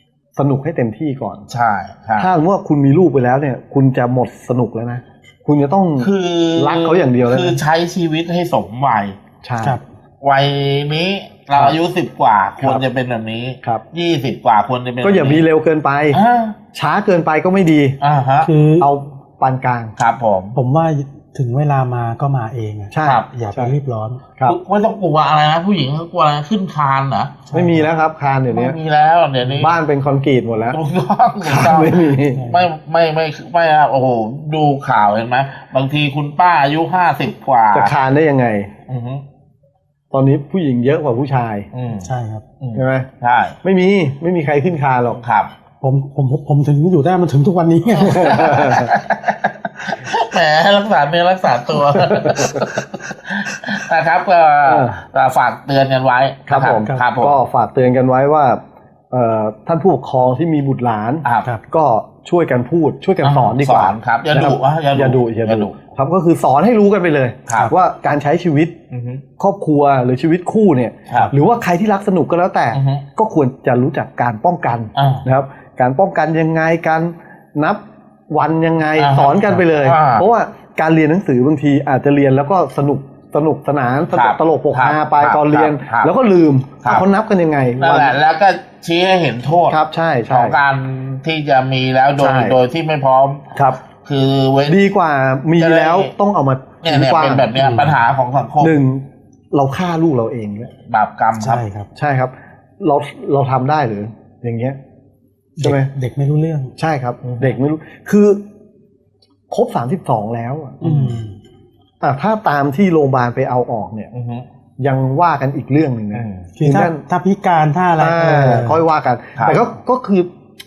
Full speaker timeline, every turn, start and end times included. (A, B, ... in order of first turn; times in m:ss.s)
0:00.4-0:01.4 A
0:01.5-0:02.3 B
0:02.2-0:07.6 A
0:06.0-0:09.2 B
0:09.4-0:09.8 A
0:10.2-0:15.4 B
0:11.5-0:11.8 A
0:12.6-0:12.8 A
0:15.0-0:16.2 A
0:16.1-0:16.6 B
0:16.7-0:18.0 A
0:18.0-0:18.5 B
0:18.4-0:18.9 C
0:18.8-0:19.9 A
0:20.0-0:20.6 B
0:20.5-0:24.2 C
0:22.9-0:23.7 A
0:23.0-0:23.3 B
0:24.4-0:27.4 B
0:27.5-0:27.9 C
0:27.5-0:28.8 A
0:28.5-0:29.8 B
0:29.5-0:30.8 A
0:30.7-0:37.9 B
0:31.4-0:32.4 A
0:32.3-0:32.7 C
0:37.7-0:38.7 A
0:38.9-0:39.2 B
0:40.1-0:41.7 A
0:41.7-0:42.1 B
0:41.9-0:42.4 C
0:42.6-0:43.6 B
0:42.7-0:43.1 A
0:43.6-0:45.2 A
0:45.2-0:45.5 B
0:45.8-0:48.6 C
0:47.8-0:57.4 B
0:48.0-0:48.9 A
0:52.0-0:52.6 A
0:54.6-0:55.0 A
0:56.5-0:58.6 A
0:59.1-1:08.7 A
1:01.2-1:01.5 B
1:03.2-1:05.7 B
1:07.5-1:07.7 B
1:08.9-1:09.2 B
1:09.4-1:28.2 A
1:12.7-1:13.0 B
1:15.0-1:15.2 B
1:19.0-1:20.2 B
1:24.1-1:26.1 B
1:27.8-1:33.5 B
1:29.7-1:30.6 A
1:32.2-1:32.6 A
1:33.5-1:33.8 A
1:34.0-1:34.8 B
1:34.6-1:37.5 A
1:35.6-1:36.1 B
1:36.8-1:38.8 B
1:37.6-1:38.0 C
1:38.6-1:40.7 A
1:40.8-1:41.6 B
1:41.4-1:41.9 C
1:41.9-1:44.8 A
1:45.6-1:46.7 C
1:45.6-1:45.9 A
1:46.8-1:48.4 A
1:47.2-1:47.6 B
1:49.5-1:50.8 A
1:50.8-1:51.4 C
1:50.8-1:51.2 B
1:52.0-1:54.1 A
1:54.1-1:54.4 B
1:54.8-1:57.0 A
1:56.1-1:56.5 B
1:56.6-1:58.8 C
1:58.0-2:00.3 A